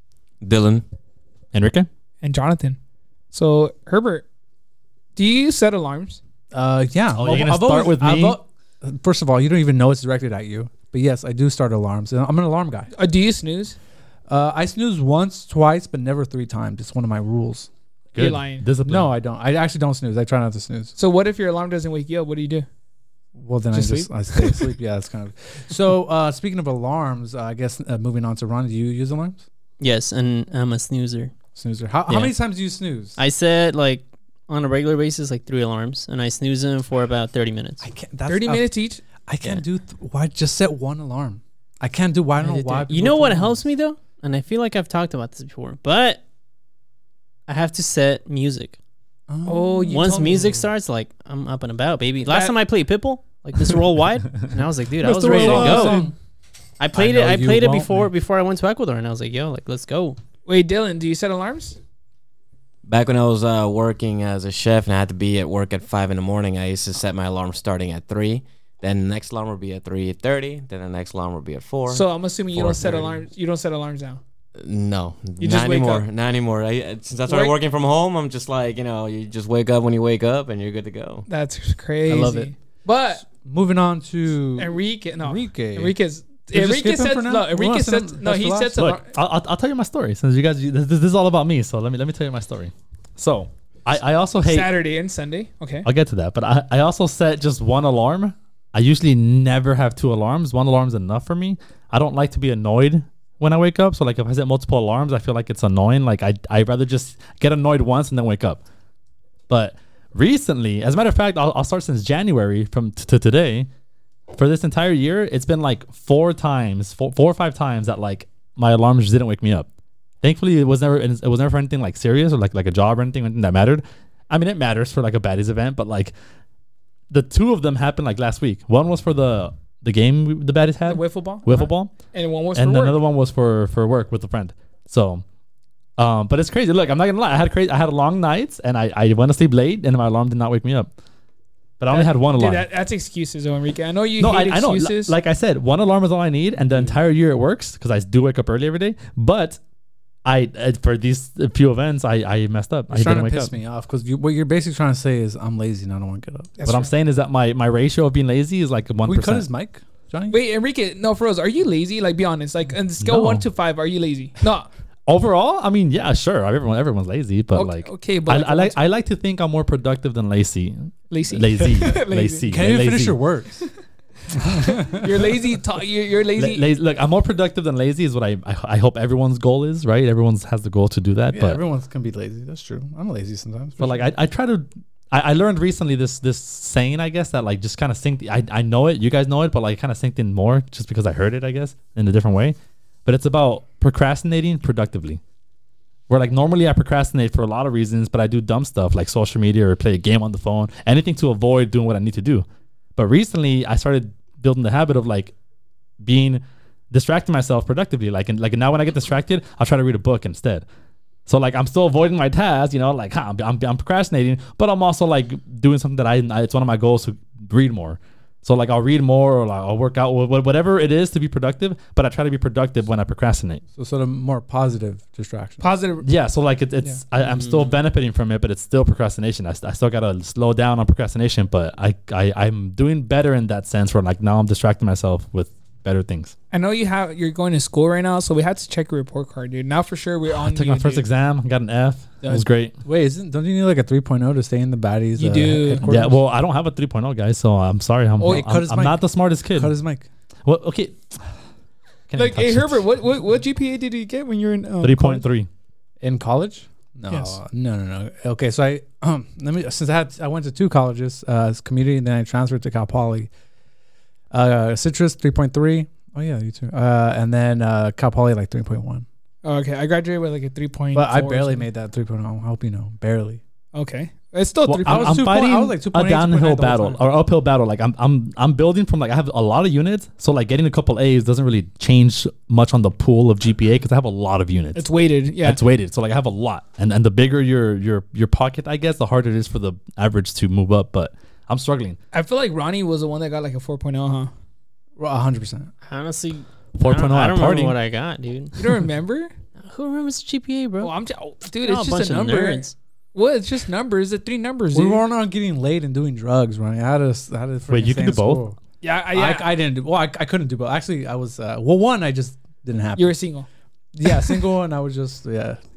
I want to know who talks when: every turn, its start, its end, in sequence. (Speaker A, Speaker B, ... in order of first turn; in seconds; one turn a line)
Speaker A: 0.4-0.8
Speaker B: 1.5-1.9
Speaker C: 2.2-2.8
Speaker C: 3.3-4.2
Speaker C: 5.2-6.2
Speaker D: 6.5-12.9
Speaker B: 7.2-8.4
Speaker C: 12.9-13.8
Speaker D: 14.3-17.7
Speaker C: 18.1-18.6
Speaker B: 18.2-19.1
Speaker D: 18.9-20.9
Speaker C: 21.0-22.7
Speaker D: 23.4-29.4
Speaker C: 23.7-24.7
Speaker E: 29.8-31.3
Speaker D: 31.6-33.2
Speaker E: 32.1-32.4
Speaker E: 33.2-37.8
Speaker D: 37.8-43.7
Speaker C: 38.3-39.0
Speaker E: 42.4-46.2
Speaker E: 47.5-48.8
Speaker D: 49.3-50.4
Speaker C: 49.5-50.7
Speaker E: 49.9-56.1
Speaker C: 52.3-52.5
Speaker D: 55.0-56.1
Speaker C: 55.3-56.1
Speaker B: 55.4-55.7
Speaker E: 56.8-60.2
Speaker D: 56.9-58.1
Speaker C: 60.5-61.8
Speaker A: 62.9-73.2
Speaker C: 71.9-74.2
Speaker A: 74.6-81.3
Speaker C: 75.4-76.1
Speaker C: 77.3-77.6
Speaker C: 81.3-83.3
Speaker D: 82.1-82.5
Speaker D: 83.3-86.0
Speaker C: 84.6-89.0
Speaker D: 86.5-88.8
Speaker B: 88.8-94.7
Speaker C: 94.4-95.9
Speaker B: 95.8-108.6
Speaker B: 109.5-113.7
Speaker B: 114.3-119.7
Speaker B: 120.2-126.1
Speaker B: 127.1-131.9
Speaker C: 130.8-133.0
Speaker B: 132.5-135.2
Speaker B: 136.0-140.9
Speaker B: 141.8-142.7
Speaker C: 141.9-145.1
Speaker B: 144.2-149.6
Speaker D: 146.7-147.0
Speaker B: 150.2-153.5
Speaker D: 152.9-156.7
Speaker B: 156.7-159.5
Speaker D: 159.1-160.4
Speaker C: 160.3-164.7
Speaker B: 163.0-163.4
Speaker B: 165.1-173.2
Speaker C: 167.5-168.8
Speaker C: 171.1-172.5
Speaker D: 172.5-173.7
Speaker D: 174.4-175.0
Speaker C: 174.6-176.7
Speaker B: 176.4-181.6
Speaker D: 181.3-184.1
Speaker B: 183.8-195.2
Speaker B: 196.1-205.3
Speaker B: 206.0-210.7
Speaker B: 211.3-223.6
Speaker D: 223.8-225.7
Speaker C: 225.6-226.1
Speaker B: 226.0-236.3
Speaker E: 227.2-227.8
Speaker C: 236.5-241.0
Speaker B: 240.4-242.7
Speaker D: 242.2-246.2
Speaker C: 245.2-245.9
Speaker B: 245.8-249.7
Speaker D: 248.2-250.1
Speaker B: 250.4-251.3
Speaker B: 252.1-252.9
Speaker C: 252.2-255.2
Speaker B: 254.8-255.5
Speaker D: 256.0-263.3
Speaker C: 257.1-257.4
Speaker D: 264.3-269.1
Speaker C: 269.4-271.7
Speaker D: 270.9-273.4
Speaker C: 273.7-275.2
Speaker B: 274.6-284.9
Speaker D: 274.9-277.0
Speaker C: 284.8-285.6
Speaker B: 285.4-292.0
Speaker C: 292.1-294.3
Speaker D: 295.0-295.7
Speaker E: 295.9-298.8
Speaker B: 296.8-297.8
Speaker C: 298.6-299.3
Speaker E: 299.7-300.9
Speaker C: 300.8-305.0
Speaker E: 301.6-302.8
Speaker D: 304.7-308.6
Speaker B: 307.7-308.4
Speaker C: 308.8-309.5
Speaker D: 309.1-313.2
Speaker C: 313.0-313.5
Speaker D: 313.9-315.6
Speaker C: 314.2-314.4